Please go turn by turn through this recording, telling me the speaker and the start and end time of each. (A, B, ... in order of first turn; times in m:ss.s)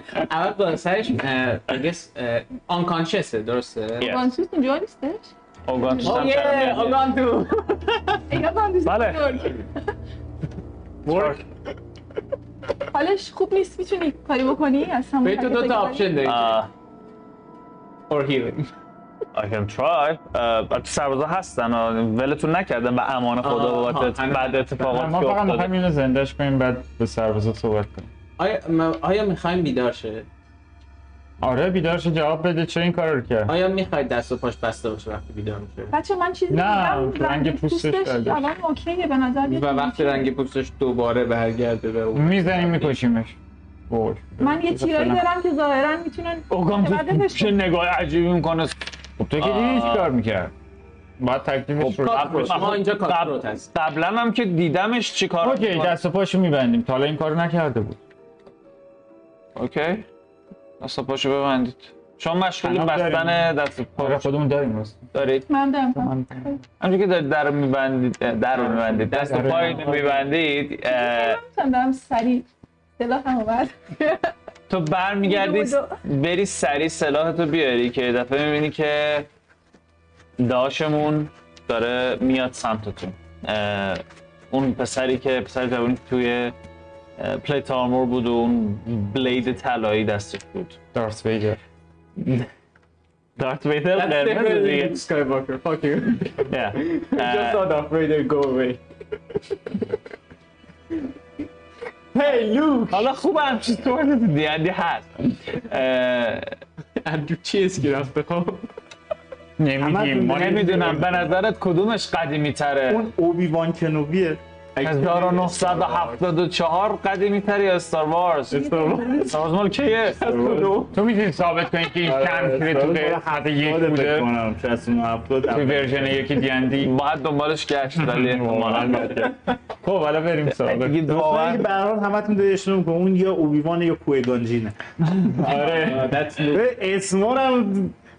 0:00.2-0:04.1 A
0:04.0-0:04.3 B
0:04.0-0:05.3 C
0:05.6-0:07.1 B
0:06.0-0:08.2 A
0:08.3-0:09.7 C
0:08.8-0:09.4 B
0:11.0-0:11.4 B
0:11.1-0:11.3 A
0:12.9-0:16.2 C
0:15.2-0:16.6 A
0:16.2-0:16.7 B
0:18.1-0:18.7 A
0:19.3-0:25.7 B
0:23.4-0:25.0 A
0:24.8-0:28.1 D
0:28.4-0:30.3 A
0:31.4-0:33.5 D
0:33.5-0:36.0 A
0:35.9-0:40.3 C
0:36.5-0:38.4 D
0:39.4-0:43.0 A
0:42.1-0:43.4 D
0:43.9-0:45.2 D
0:44.4-0:47.6 C
0:46.5-0:48.8 B
0:49.2-0:50.5 D
0:49.4-0:50.1 B
0:51.2-0:52.8 D
0:51.8-0:56.0 B
0:52.0-0:53.7 A
0:55.4-0:58.0 D
0:59.5-1:00.1 B
1:00.8-1:04.3 B
1:02.6-1:05.1 D
1:05.1-1:05.5 B
1:05.5-1:06.6 C
1:06.0-1:06.5 D
1:06.8-1:11.4 B
1:08.5-1:10.4 A
1:09.2-1:09.9 D
1:10.8-1:12.4 C
1:13.0-1:14.3 C
1:14.7-1:19.3 B
1:15.2-1:16.0 C
1:20.4-1:26.6 B
1:27.2-1:30.8 B
1:30.9-1:31.6 D
1:32.2-1:32.5 B
1:33.4-1:35.0 B
1:33.9-1:38.8 A
1:36.5-1:37.7 B
1:42.1-1:43.1 A
1:42.9-1:46.6 B
1:47.0-1:48.7 A
1:49.6-1:50.9 D
1:49.8-1:51.3 E
1:50.3-1:53.1 B
1:52.9-1:54.4 E
1:54.8-1:56.2 A
1:54.8-2:00.3 B
1:58.5-1:59.4 A
2:00.1-2:01.0 A
2:00.3-2:00.8 E
2:00.9-2:04.3 D
2:02.0-2:06.3 E
2:05.4-2:06.9 D
2:06.8-2:09.2 B
2:08.0-2:11.0 D
2:10.6-2:11.6 B
2:11.0-2:14.7 E
2:15.0-2:16.2 D
2:15.4-2:16.7 A
2:16.5-2:17.9 E